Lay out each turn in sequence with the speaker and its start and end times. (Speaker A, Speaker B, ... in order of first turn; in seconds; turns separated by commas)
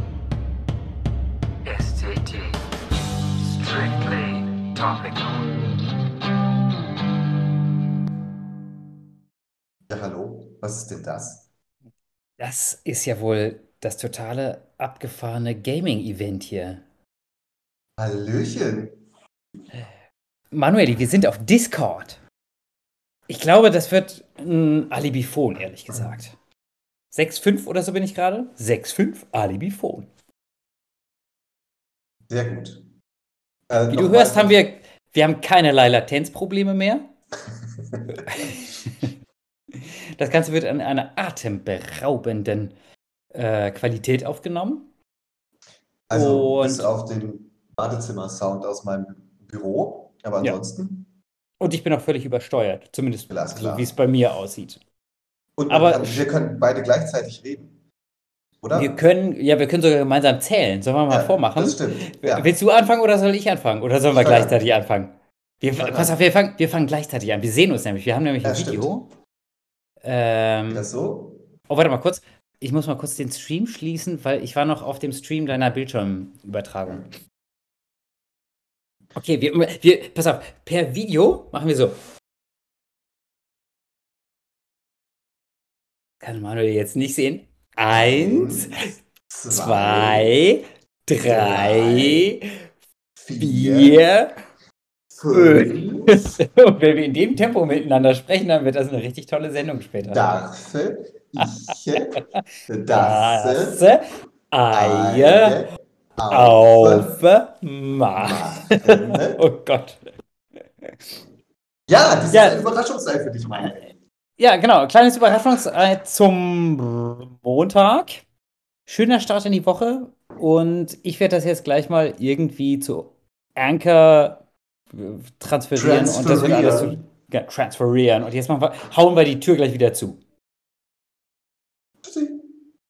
Speaker A: 1.6-2.6, Speaker A: 3.4-5.4, Speaker B: 9.9-11.4, Speaker A: 12.4-16.8, Speaker B: 18.0-18.9, Speaker A: 20.5-22.2, Speaker A: 23.3-26.3, Speaker A: 27.1-30.1, Speaker B: 32.3-32.8, Speaker B: 33.7-34.6, Speaker A: 33.9-37.0, Speaker B: 37.9-38.2, Speaker A: 38.3-39.1, Speaker A: 39.8-42.7, Speaker A: 43.3-44.9, Speaker B: 46.1-51.0, Speaker A: 46.1-46.9, Speaker A: 51.6-54.8, Speaker B: 53.3-54.0, Speaker B: 55.6-57.7, Speaker A: 55.7-56.2, Speaker B: 58.6-59.0, Speaker A: 58.7-69.0, Speaker B: 61.1-62.5, Speaker B: 64.1-64.6, Speaker B: 65.8-66.2, Speaker B: 68.4-68.9, Speaker A: 70.0-70.8, Speaker B: 70.7-71.4, Speaker A: 71.7-77.1, Speaker A: 79.1-82.0, Speaker A: 86.2-88.7, Speaker B: 87.9-88.7, Speaker B: 89.3-90.3, Speaker A: 89.5-92.5, Speaker B: 91.2-92.3, Speaker B: 93.2-94.0, Speaker A: 93.4-94.3, Speaker B: 95.1-96.2, Speaker A: 95.3-100.3, Speaker B: 100.1-103.9, Speaker A: 102.9-105.6, Speaker B: 104.7-107.1, Speaker A: 106.3-110.0, Speaker B: 108.2-109.4, Speaker B: 111.9-113.9, Speaker A: 112.3-112.6, Speaker A: 114.4-118.2, Speaker A: 118.9-124.4, Speaker A: 124.9-130.2, Speaker B: 125.7-127.0, Speaker B: 132.0-132.4